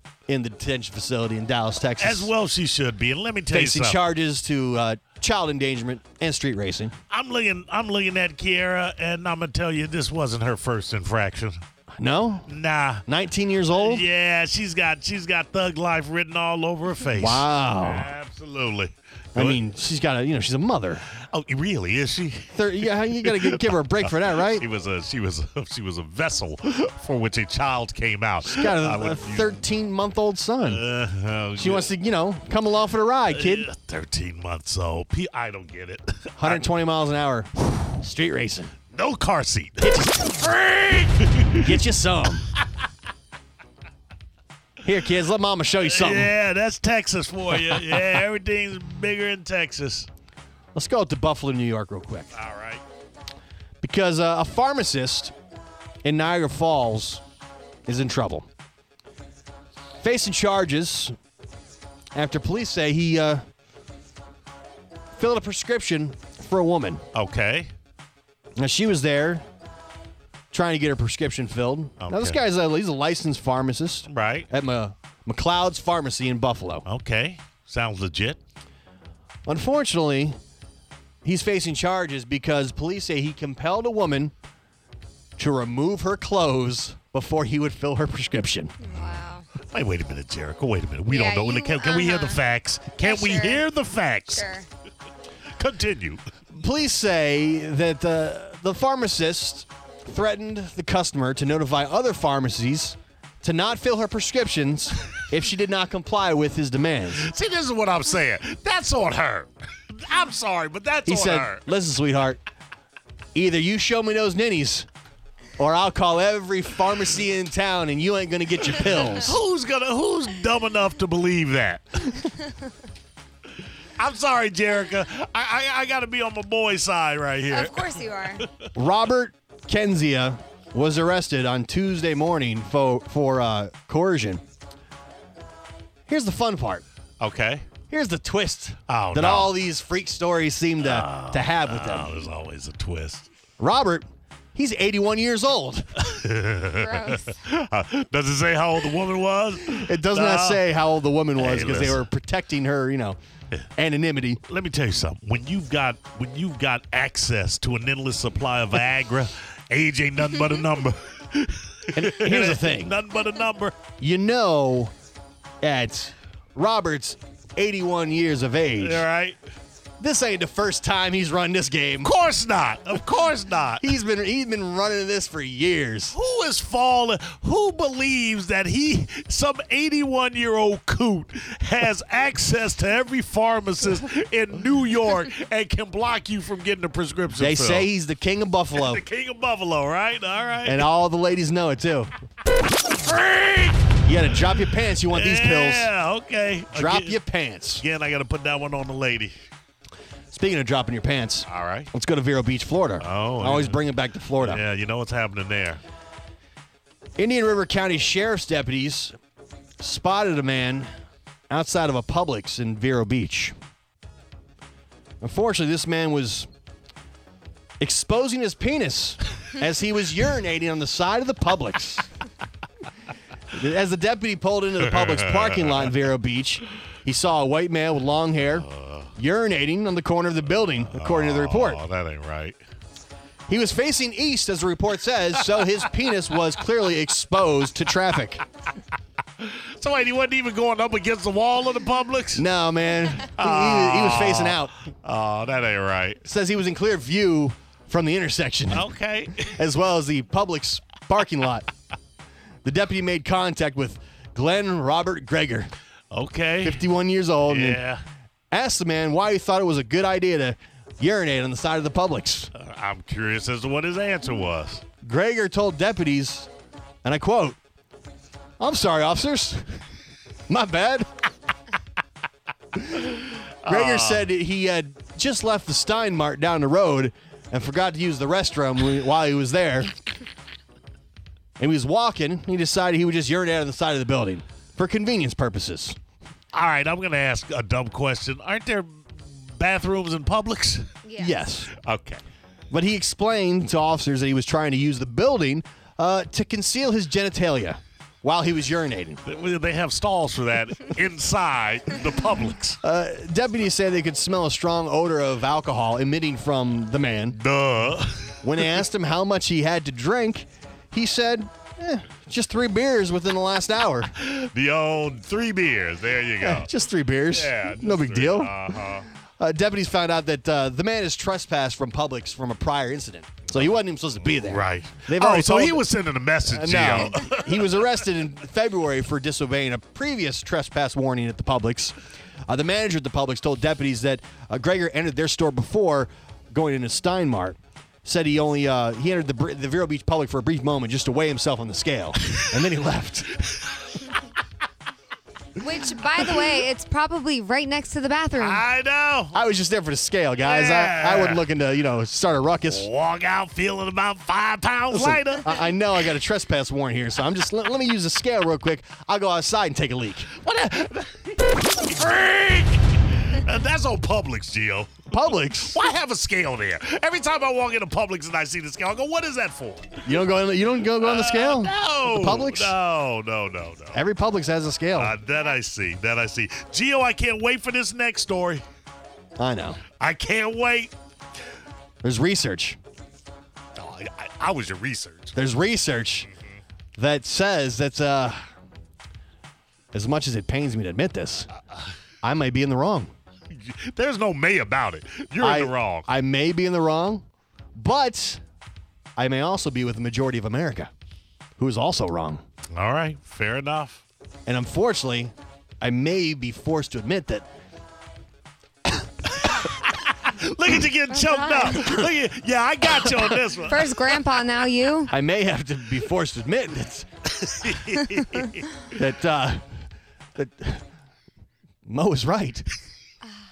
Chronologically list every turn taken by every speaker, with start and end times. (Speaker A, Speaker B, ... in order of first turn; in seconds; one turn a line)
Speaker A: 0.3-2.3
Speaker B: 2.0-4.0
Speaker A: 3.5-6.9
Speaker B: 7.1-11.6
Speaker A: 12.0-12.5
Speaker B: 12.5-13.1
Speaker A: 13.1-14.1
Speaker B: 13.7-19.6
Speaker A: 17.1-18.1
Speaker A: 19.3-21.0
Speaker B: 21.3-29.6
Speaker A: 22.5-24.6
Speaker A: 28.4-30.8
Speaker B: 30.6-31.9
Speaker A: 31.6-33.7
Speaker B: 33.3-36.6
Speaker A: 36.4-38.7
Speaker B: 38.9-39.9
Speaker A: 39.8-40.6
Speaker B: 40.5-41.8
Speaker A: 41.5-42.5
Speaker A: 44.8-46.3
Speaker B: 45.8-50.1
Speaker A: 47.5-48.1
Speaker A: 50.7-52.3
Speaker B: 52.3-52.8
Speaker A: 53.8-55.3
Speaker A: 56.0-57.2
Speaker A: 57.9-58.5
Speaker A: 60.0-61.1
Speaker A: 62.1-63.4
Speaker A: 65.2-67.0
Speaker B: 67.1-67.7
Speaker A: 68.6-69.4
Speaker A: 70.5-76.8
Speaker B: 72.0-72.4
Speaker B: 74.1-74.5
Speaker B: 76.8-78.4
Speaker A: 79.5-80.4
Speaker A: 81.2-84.3
Speaker A: 85.4-88.8
Speaker C: 88.8-89.5
Speaker B: 88.9-94.5
Speaker C: 91.1-92.4
Speaker C: 93.0-93.6
Speaker C: 94.3-94.7
Speaker B: 95.6-96.2
Speaker A: 96.5-107.3
Speaker B: 107.2-111.6
Speaker A: 111.0-112.4
Speaker A: 113.3-114.9
Speaker A: 115.6-119.4
Speaker B: 119.2-122.2
Speaker B: 124.0-128.5
Speaker C: 127.5-128.4
Speaker A: 128.7-134.4
Speaker A: 136.1-136.8
Speaker B: 137.2-137.7
Speaker A: 137.9-142.2
Speaker B: 138.9-139.5
Speaker B: 140.8-143.3
Speaker A: 143.6-145.8
Speaker B: 146.0-150.6
Speaker C: 146.7-147.4
Speaker A: 149.7-153.2
Speaker B: 151.4-152.1
Speaker A: 153.8-154.4
Speaker B: 154.5-163.8
Speaker A: 161.9-163.0
Speaker A: 164.0-164.9
Speaker A: 165.6-169.0
Speaker B: 168.8-169.4
Speaker A: 170.0-172.1
Speaker B: 172.0-173.9
Speaker A: 173.8-176.2
Speaker B: 176.1-187.9
Speaker A: 187.4-189.0
Speaker B: 188.7-190.9
Speaker A: 190.6-192.1
Speaker B: 193.0-193.8
Speaker A: 194.0-195.9
Speaker B: 195.1-197.2
Speaker A: 196.7-197.8
Speaker B: 197.8-199.3
Speaker A: 200.3-204.6
Speaker B: 201.5-201.9
Speaker B: 203.0-203.8
Speaker B: 204.4-205.8
Speaker A: 207.2-209.2
Speaker A: 209.8-210.9
Speaker A: 211.5-213.5
Speaker A: 215.2-216.5
Speaker A: 217.8-222.1
Speaker A: 223.5-231.8
Speaker B: 225.1-225.9
Speaker B: 228.5-229.1
Speaker B: 230.9-232.6
Speaker A: 233.5-238.4
Speaker B: 239.4-242.4
Speaker A: 242.3-244.8
Speaker B: 243.3-246.2
Speaker A: 246.2-248.9
Speaker B: 248.7-249.6
Speaker A: 249.4-251.7
Speaker A: 252.6-255.7
Speaker B: 256.1-256.8
Speaker A: 256.6-257.8
Speaker B: 257.5-258.0
Speaker A: 258.5-262.5
Speaker B: 262.5-264.8
Speaker A: 265.0-266.5
Speaker A: 267.0-267.6
Speaker A: 268.6-269.8
Speaker A: 270.5-271.1
Speaker A: 272.8-279.9
Speaker B: 273.6-274.3
Speaker A: 281.6-285.9
Speaker B: 286.5-290.9
Speaker C: 291.0-291.4
Speaker A: 291.2-291.7
Speaker B: 291.8-292.2
Speaker A: 292.7-299.2
Speaker B: 299.2-302.8
Speaker A: 302.8-307.4
Speaker B: 307.3-308.6
Speaker A: 308.4-314.1
Speaker B: 314.2-316.7
Speaker A: 316.4-318.7
Speaker B: 317.3-319.1
Speaker A: 319.4-325.9
Speaker B: 324.4-327.9
Speaker A: 326.4-331.9
Speaker A: 332.5-343.4
Speaker C: 345.6-348.6
Speaker B: 348.4-349.4
Speaker A: 349.3-352.9
Speaker B: 350.4-351.4
Speaker B: 352.6-355.7
Speaker A: 354.9-360.3
Speaker B: 360.3-370.1
Speaker A: 365.1-365.8
Speaker A: 370.0-372.7
Speaker B: 371.0-374.0
Speaker A: 373.9-375.1
Speaker B: 374.9-378.6
Speaker A: 379.4-379.8
Speaker B: 380.0-380.9
Speaker A: 382.0-382.8
Speaker B: 383.8-385.4
Speaker A: 385.3-386.3
Speaker A: 386.9-388.4
Speaker A: 389.9-391.5
Speaker A: 392.2-393.1
Speaker B: 393.5-396.1
Speaker A: 395.4-397.2
Speaker A: 397.7-398.4
Speaker A: 399.1-400.9
Speaker A: 401.6-402.4
Speaker B: 402.7-404.0
Speaker A: 404.4-407.5
Speaker B: 409.5-414.2
Speaker C: 411.1-411.9
Speaker C: 413.6-415.1
Speaker A: 415.1-417.0
Speaker B: 417.4-418.7
Speaker A: 418.9-419.6
Speaker A: 420.4-420.8
Speaker A: 421.9-422.7